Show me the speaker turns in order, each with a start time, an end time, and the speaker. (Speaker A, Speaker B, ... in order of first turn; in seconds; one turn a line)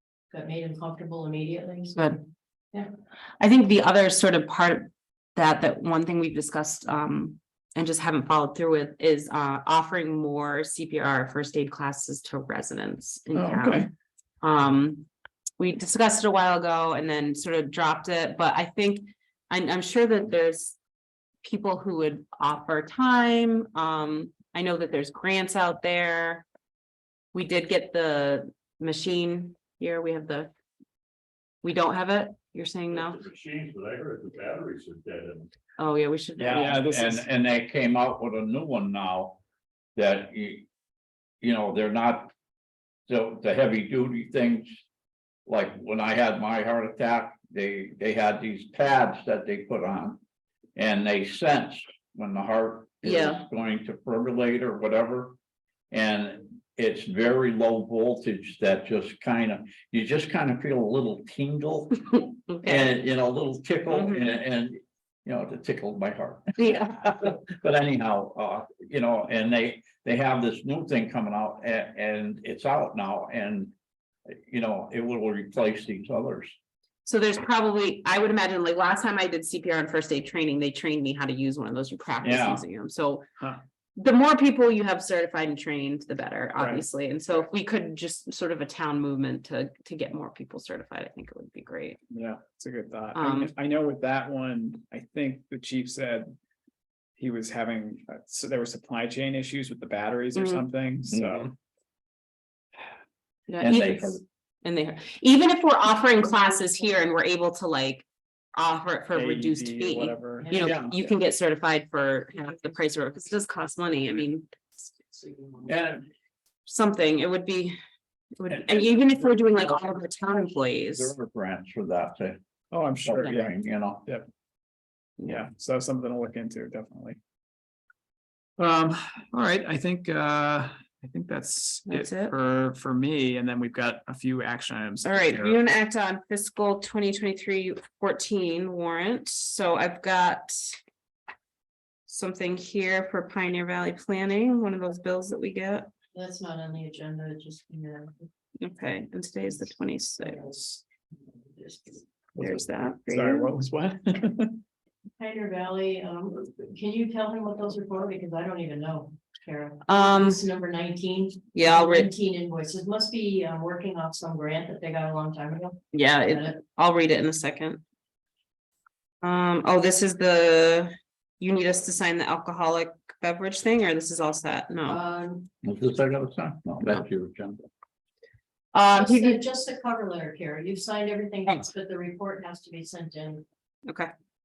Speaker A: 0.3-2.9
Speaker B: 3.4-13.9
Speaker C: 13.3-13.9
Speaker B: 14.4-15.1
Speaker B: 15.6-20.8
Speaker B: 21.4-26.4
Speaker B: 27.3-30.5
Speaker B: 31.6-33.2
Speaker D: 33.1-35.5
Speaker B: 35.8-37.1
Speaker E: 36.4-39.4
Speaker C: 36.4-37.2
Speaker E: 40.0-40.6
Speaker E: 41.4-42.3
Speaker E: 43.1-44.8
Speaker E: 45.5-50.2
Speaker E: 50.8-55.4
Speaker B: 53.0-53.4
Speaker E: 55.9-73.7
Speaker B: 62.5-62.9
Speaker B: 63.9-64.2
Speaker B: 66.6-67.3
Speaker E: 74.3-76.5
Speaker B: 77.0-83.2
Speaker E: 82.2-82.7
Speaker B: 84.0-92.0
Speaker C: 86.5-86.8
Speaker C: 92.1-96.3
Speaker B: 93.1-93.5
Speaker C: 97.2-101.5
Speaker B: 100.3-100.6
Speaker E: 101.1-101.4
Speaker B: 103.5-114.5
Speaker E: 103.6-104.2
Speaker C: 109.1-110.5
Speaker A: 110.4-110.7
Speaker E: 110.6-110.9
Speaker A: 115.2-115.6
Speaker E: 115.6-116.0
Speaker B: 116.7-117.8
Speaker B: 118.4-121.1
Speaker E: 121.0-122.4
Speaker C: 122.7-123.5
Speaker E: 123.0-124.0
Speaker C: 125.2-127.2
Speaker C: 128.6-135.6
Speaker B: 131.8-132.3
Speaker B: 135.0-140.8
Speaker B: 142.1-145.9
Speaker A: 146.1-148.3
Speaker B: 148.6-150.5
Speaker A: 150.2-150.8
Speaker A: 151.5-152.0
Speaker B: 152.3-153.5
Speaker C: 152.4-154.6
Speaker A: 155.2-166.5
Speaker B: 159.8-160.4
Speaker B: 161.5-162.1
Speaker B: 165.9-167.8
Speaker B: 169.2-175.0
Speaker A: 174.8-175.5
Speaker E: 175.6-177.6
Speaker B: 178.7-179.4
Speaker A: 178.9-183.4
Speaker B: 183.9-184.1